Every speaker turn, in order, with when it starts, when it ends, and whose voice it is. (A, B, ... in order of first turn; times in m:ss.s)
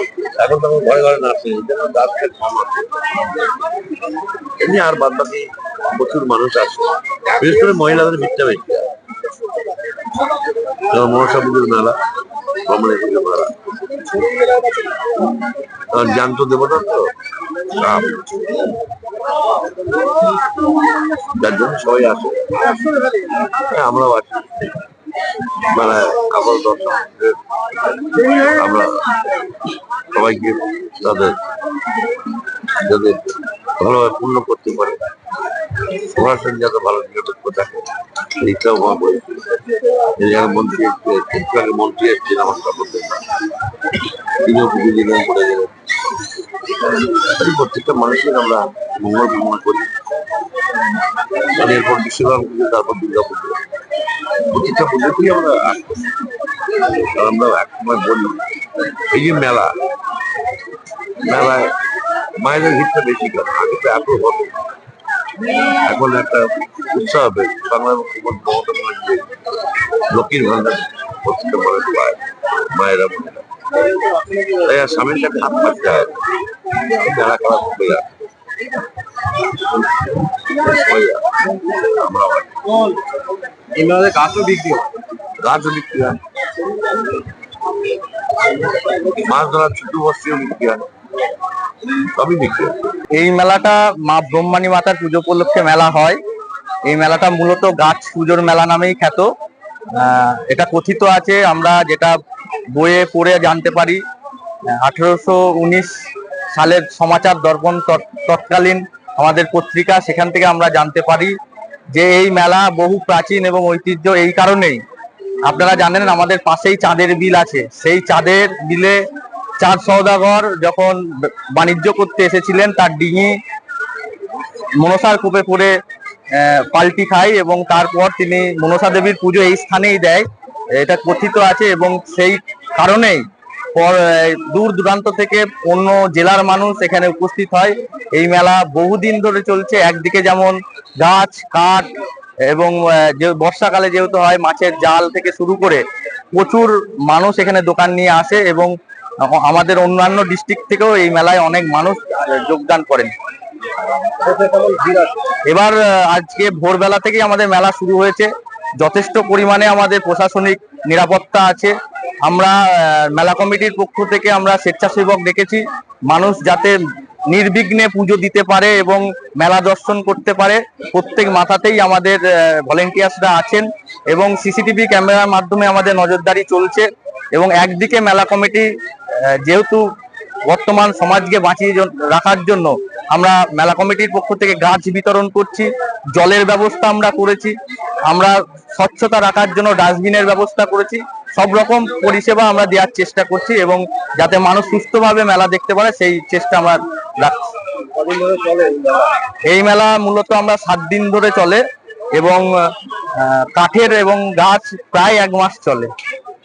0:00.4-0:03.1 A
0:04.6-0:08.9 A
0:10.9-0:12.0 A
0:12.6-0:13.5 A
0:15.9-0:17.1 A
0:17.7-0:18.4 A
0:21.3-0:22.6 A
0:23.5-0:24.7 A
0:25.7-0:27.4 A
0:28.2-0:29.1 A
0:30.1-0:31.4 A
0:32.8-0:35.1 A
0:35.9-0:39.5 A
0:40.2-0:43.2 A
0:44.4-0:45.8 A
0:47.0-0:49.9 A
0:51.5-0:53.6 A
0:54.5-0:56.1 A
0:57.0-0:58.4 A
0:59.1-0:59.8 A
1:01.2-1:01.7 A
1:02.4-1:04.6 A
1:05.7-1:09.3 A
1:10.1-1:13.4 A
1:14.4-1:16.2 A
1:16.8-1:18.1 A
1:20.5-1:22.8 A
1:23.7-1:24.9 B
1:25.4-1:26.2 A
1:28.9-1:30.9 A
1:32.0-1:32.8 A
1:33.1-1:36.2 C
1:36.8-1:39.3 C
1:40.0-1:42.2 C
1:42.7-1:44.0 C
1:44.7-1:51.3 C
1:51.9-1:54.8 C
1:55.4-1:59.0 C
1:59.6-2:03.4 C
2:04.8-2:05.7 C
2:06.3-2:21.9 C
2:22.4-2:33.1 C
2:34.2-2:35.2 B
2:35.4-2:46.8 C
2:47.3-2:59.9 C
3:00.5-3:17.5 C
3:17.9-3:19.2 B
3:19.3-3:21.6 C
3:22.1-3:25.9 C